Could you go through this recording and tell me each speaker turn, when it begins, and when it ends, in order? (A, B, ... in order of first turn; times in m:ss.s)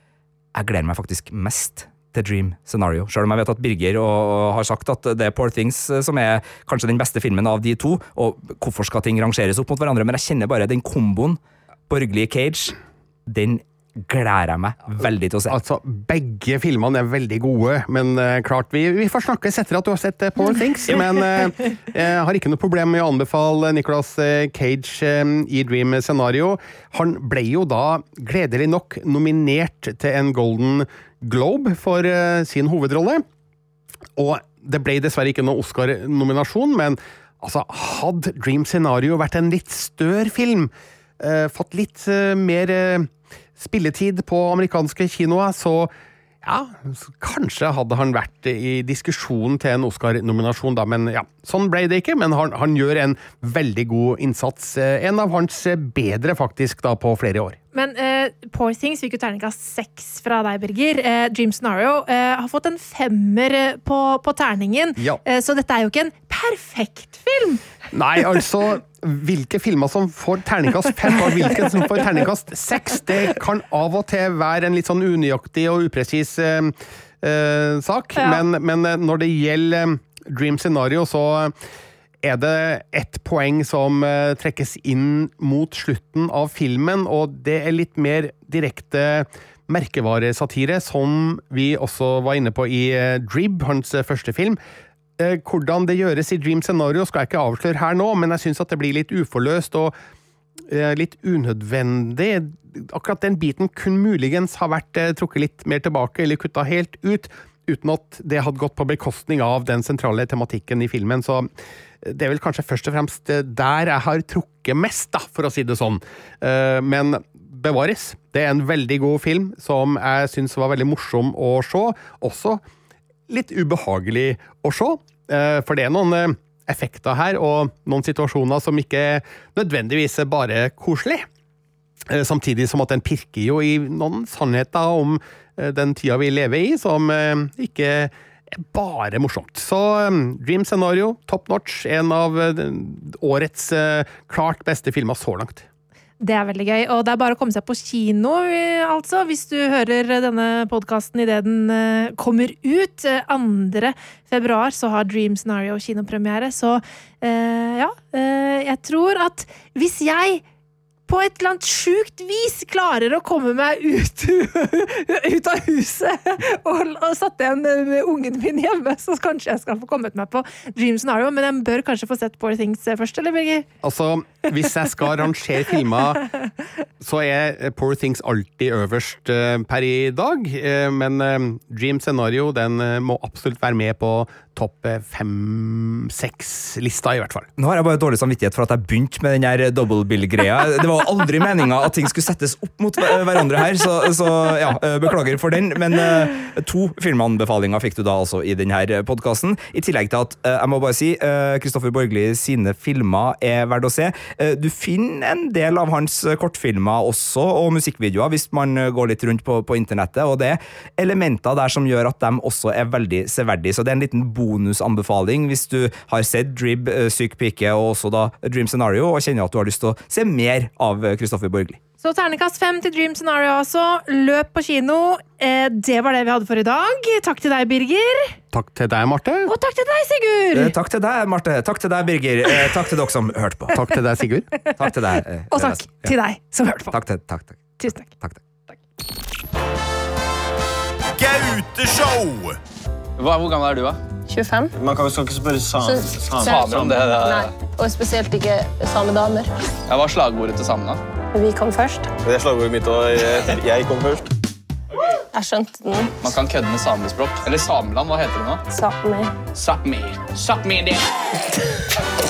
0:00.5-0:12.8 A
0:13.3-0:15.6 A
0:15.5-0:33.2 B
0:34.2-0:45.9 B
0:46.4-0:57.6 B
0:57.7-1:07.6 C
1:07.9-1:21.5 B
1:22.2-1:34.6 B
1:35.2-1:39.9 B
1:40.7-1:51.5 B
1:52.0-2:02.6 B
2:03.3-2:11.3 B
2:12.1-2:25.6 B
2:26.2-2:40.4 C
2:41.1-2:53.6 C
2:53.8-2:56.2 B
2:57.0-3:07.5 B
3:07.6-3:41.8 A
3:42.0-3:48.4 C
3:48.5-3:49.5 B
3:49.4-3:50.7 C
3:50.5-3:53.8 A
3:53.7-3:54.5 B
3:54.8-3:56.1 A
3:55.5-3:56.9 C
3:56.9-3:57.6 A
3:57.8-3:58.1 C
4:01.2-4:02.5 D
4:03.2-4:04.0 E
4:04.3-4:04.7 F
4:04.8-4:07.0 D
4:05.8-4:09.5 F
4:06.4-4:07.5 E
4:09.9-4:11.0 E
4:11.3-4:12.1 F
4:12.2-4:14.3 D
4:15.3-4:16.1 F
4:16.2-4:18.6 E
4:18.7-4:19.4 F
4:19.5-4:21.0 E